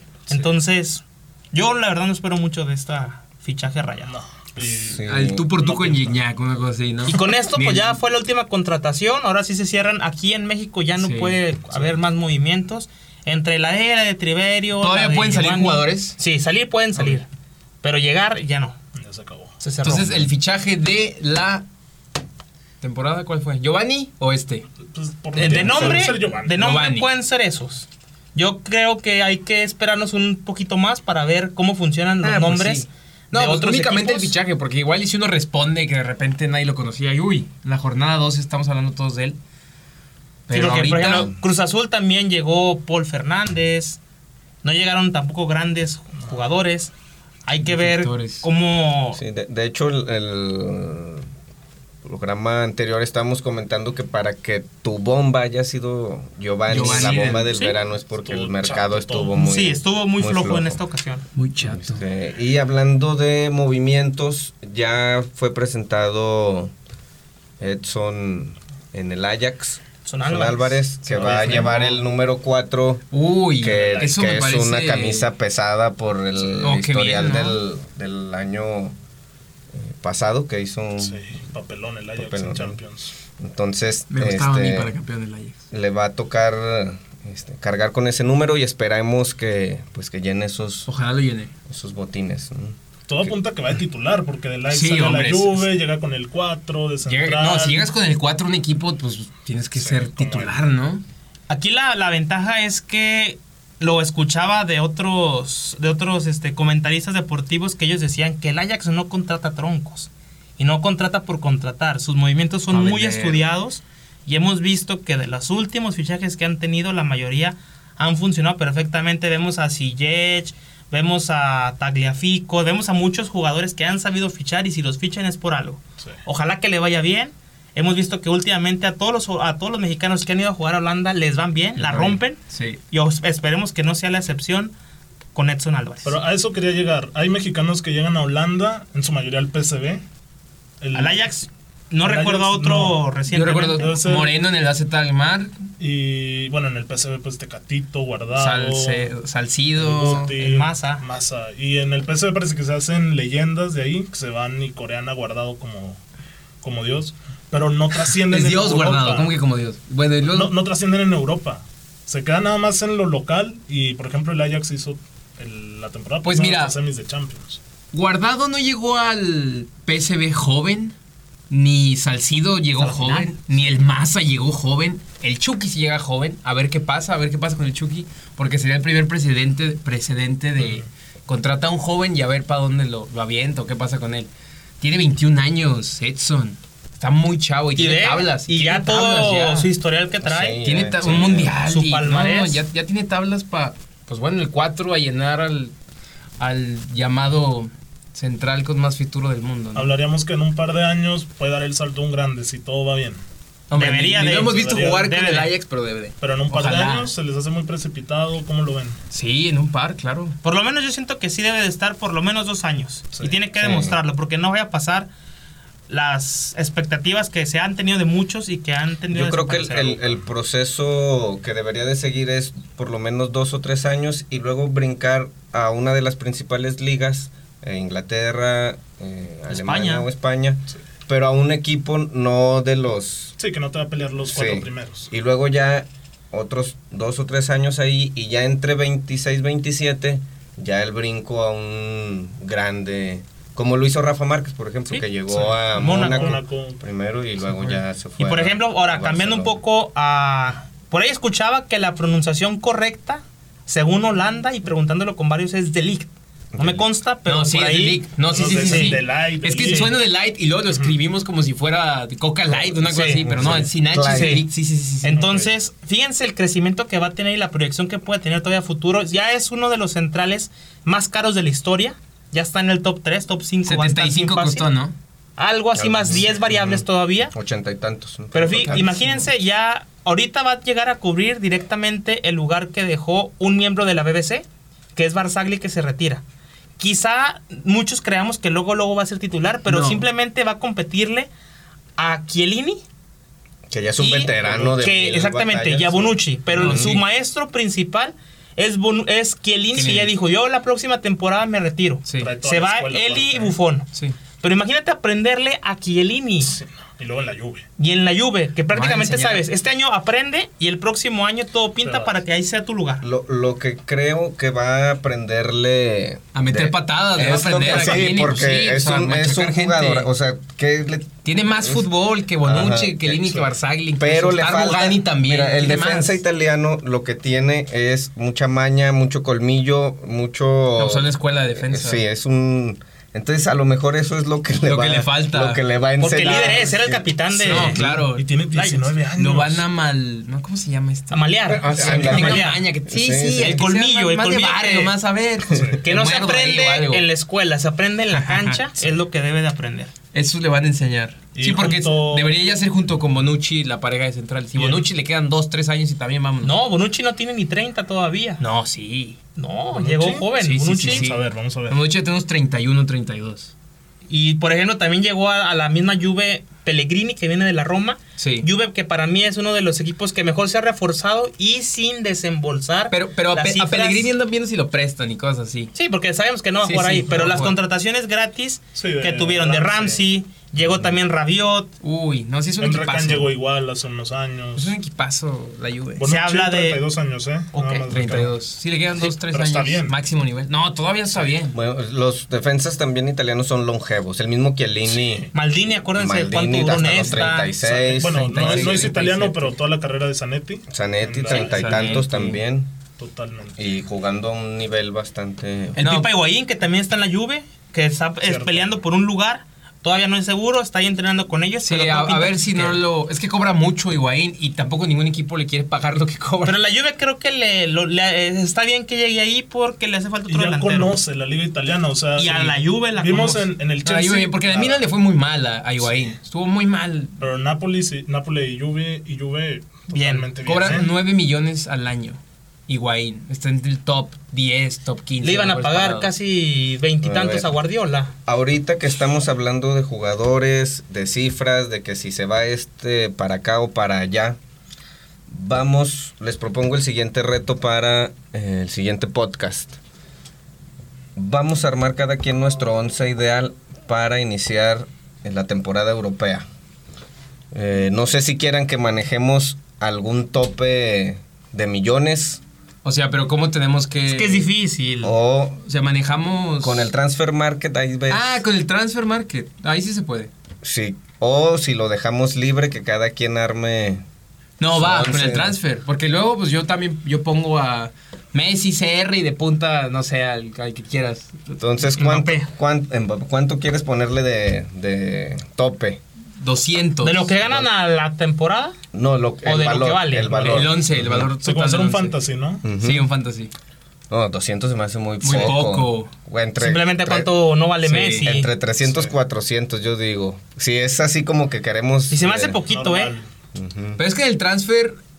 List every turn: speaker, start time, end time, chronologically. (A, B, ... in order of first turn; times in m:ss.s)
0:00.3-0:04.1 A
0:04.0-0:05.0 B
0:04.8-0:05.5 C
0:05.0-0:08.0 D
0:05.6-0:06.2 B
0:07.1-0:17.3 A
0:11.0-0:11.4 D
0:11.7-0:12.0 B
0:14.8-0:16.2 D
0:17.8-0:18.8 A
0:19.0-0:19.6 B
0:19.6-0:20.3 A
0:19.8-0:21.6 D
0:22.8-0:24.7 D
0:24.8-0:26.6 B
0:25.4-0:34.3 A
0:25.4-0:27.1 D
0:32.2-0:39.4 D
0:40.5-0:41.3 D
0:40.5-0:44.0 A
0:41.1-0:41.4 C
0:44.6-0:46.9 A
0:47.5-0:49.2 A
0:47.6-0:48.4 D
0:49.2-0:51.3 C
0:52.0-1:00.8 C
0:56.7-0:57.6 D
0:56.8-0:57.8 A
0:58.2-0:59.4 B
0:59.4-1:01.2 A
1:01.4-1:02.0 D
1:01.6-1:06.7 C
1:07.6-1:19.0 C
1:10.0-1:10.8 A
1:11.0-1:12.0 B
1:11.2-1:11.9 D
1:13.1-1:15.3 D
1:13.8-1:14.1 B
1:16.6-1:17.6 D
1:19.7-1:21.2 C
1:21.0-1:23.1 B
1:22.2-1:22.8 C
1:23.4-1:24.9 C
1:24.1-1:25.6 D
1:25.7-1:30.9 C
1:30.9-1:31.5 D
1:31.7-1:33.3 C
1:33.1-1:37.9 B
1:34.7-1:35.7 D
1:37.0-1:41.0 D
1:39.8-1:40.6 B
1:41.5-2:12.4 A
1:52.7-1:53.4 D
2:11.8-2:12.8 D
2:12.9-2:14.7 A
2:15.3-2:16.2 A
2:16.0-2:20.0 B
2:20.8-2:21.2 B
2:20.9-2:23.9 A
2:22.0-2:23.0 B
2:23.3-2:25.6 D
2:23.8-2:24.3 B
2:25.8-2:29.1 B
2:28.4-2:30.3 D
2:29.8-2:36.0 B
2:30.4-2:31.0 A
2:36.6-2:39.3 B
2:38.2-2:40.5 D
2:40.3-2:47.6 B
2:46.2-2:46.8 D
2:47.9-2:50.9 D
2:51.5-3:04.3 D
2:52.8-2:53.3 B
2:52.8-2:53.3 A
3:00.6-3:00.9 B
3:04.8-3:09.7 D
3:07.8-3:10.6 A
3:10.2-3:11.6 C
3:10.6-3:15.7 D
3:11.6-3:12.6 A
3:16.4-3:19.9 D
3:19.8-3:23.2 B
3:23.7-3:27.1 D
3:23.7-3:25.5 A
3:24.4-3:25.0 B
3:26.2-3:29.0 B
3:29.1-3:30.4 D
3:30.4-3:35.1 A
3:33.6-3:34.0 C
3:35.9-3:40.1 A
3:39.1-3:53.4 C
3:49.5-3:50.1 A
3:53.4-3:55.1 B
3:54.3-4:09.6 C
4:05.3-4:06.8 B
4:05.7-4:06.4 A
4:08.2-4:19.0 A
4:16.5-4:16.8 C
4:17.3-4:25.2 D
4:18.3-4:20.0 B
4:22.8-4:23.2 A
4:23.2-4:24.4 C
4:24.0-4:24.5 A
4:25.0-4:34.6 A
4:25.1-4:25.5 B
4:33.6-4:34.9 D
4:35.4-4:37.3 A
4:35.8-4:39.2 C
4:38.3-4:46.2 A
4:46.8-4:51.3 A
4:49.7-4:50.0 D
4:52.0-4:52.8 A
4:53.7-4:57.0 C
4:54.0-5:03.9 A
4:54.4-4:54.8 B
4:56.5-4:57.0 D
4:59.7-5:00.1 D
5:02.1-5:02.3 D
5:02.2-5:03.6 B
5:04.4-5:06.6 A
5:06.4-5:07.6 B
5:07.8-5:13.0 A
5:08.7-5:09.4 D
5:11.8-5:12.2 B
5:13.0-5:21.9 C
5:16.3-5:20.1 D
5:21.2-5:26.2 D
5:22.4-5:23.4 C
5:24.0-5:38.0 C
5:30.8-5:32.0 D
5:34.6-5:35.6 D
5:36.0-5:37.8 A
5:36.2-5:36.6 B
5:37.4-5:39.6 B
5:37.5-5:38.3 D
5:38.5-5:38.9 A
5:39.2-5:47.0 D
5:41.1-5:42.7 A
5:41.5-5:43.6 C
5:41.8-5:42.1 B
5:43.4-5:44.9 A
5:45.5-5:45.8 B
5:45.8-5:49.9 A
5:48.1-5:48.6 D
5:50.1-5:56.6 D
5:51.4-5:52.3 B
5:54.6-5:54.9 B
5:56.4-5:58.4 A
5:58.4-5:59.2 D
5:59.4-6:01.1 A
5:59.7-6:00.3 B
6:00.4-6:03.5 D
6:00.8-6:01.8 B
6:04.1-6:14.1 A
6:08.2-6:08.5 D
6:12.9-6:15.7 D
6:15.8-6:21.7 A
6:16.6-6:17.6 D
6:18.8-6:20.0 B
6:21.8-6:23.3 D
6:22.6-6:24.7 B
6:24.6-6:26.1 D
6:26.0-6:28.4 B
6:26.0-6:26.8 A
6:27.5-6:27.9 A
6:27.9-6:31.6 D
6:29.0-6:29.9 B
6:31.5-6:35.3 C
6:34.9-6:35.3 B
6:35.3-6:37.5 A
6:36.0-6:39.0 C
6:37.6-6:42.1 B
6:38.0-6:39.6 D
6:40.7-6:42.7 C
6:41.3-6:42.4 D
6:43.0-6:43.6 B
6:43.6-6:45.8 C
6:45.8-6:46.1 D
6:45.8-6:52.8 A
6:48.2-6:48.7 B
6:51.6-6:56.6 D
6:56.4-7:01.0 A
7:00.3-7:04.8 B
7:02.2-7:03.5 A
7:03.8-7:07.2 D
7:05.8-7:06.2 B
7:07.2-7:10.9 B
7:09.9-7:10.3 A
7:10.4-7:16.1 D
7:15.2-7:18.1 A
7:17.0-7:17.5 C
7:18.3-7:24.4 C
7:25.3-7:29.8 C
7:31.2-7:36.5 C
7:37.5-7:42.4 C
7:42.8-7:44.5 D
7:44.1-7:45.1 A
7:45.0-7:45.6 C
7:45.6-7:46.9 D
7:46.6-7:48.4 C
7:48.1-7:50.3 D
7:50.6-7:54.0 C
7:54.6-8:01.9 D
7:54.7-7:55.6 C
8:01.6-8:06.0 C
8:02.0-8:02.5 A
8:06.4-8:07.3 D
8:07.0-8:08.8 A
8:07.4-8:07.7 C
8:08.9-8:11.3 C
8:09.4-8:10.6 A
8:10.4-8:12.2 D
8:11.4-8:12.6 B
8:12.6-8:13.1 C
8:12.8-8:13.5 D
8:14.1-8:17.3 C
8:15.2-8:16.1 D
8:16.6-8:18.5 A
8:17.8-8:18.3 D
8:18.2-8:22.6 C
8:18.8-8:19.1 B
8:22.1-8:23.1 A
8:22.7-8:23.3 B
8:23.5-8:24.0 C
8:24.0-8:25.0 D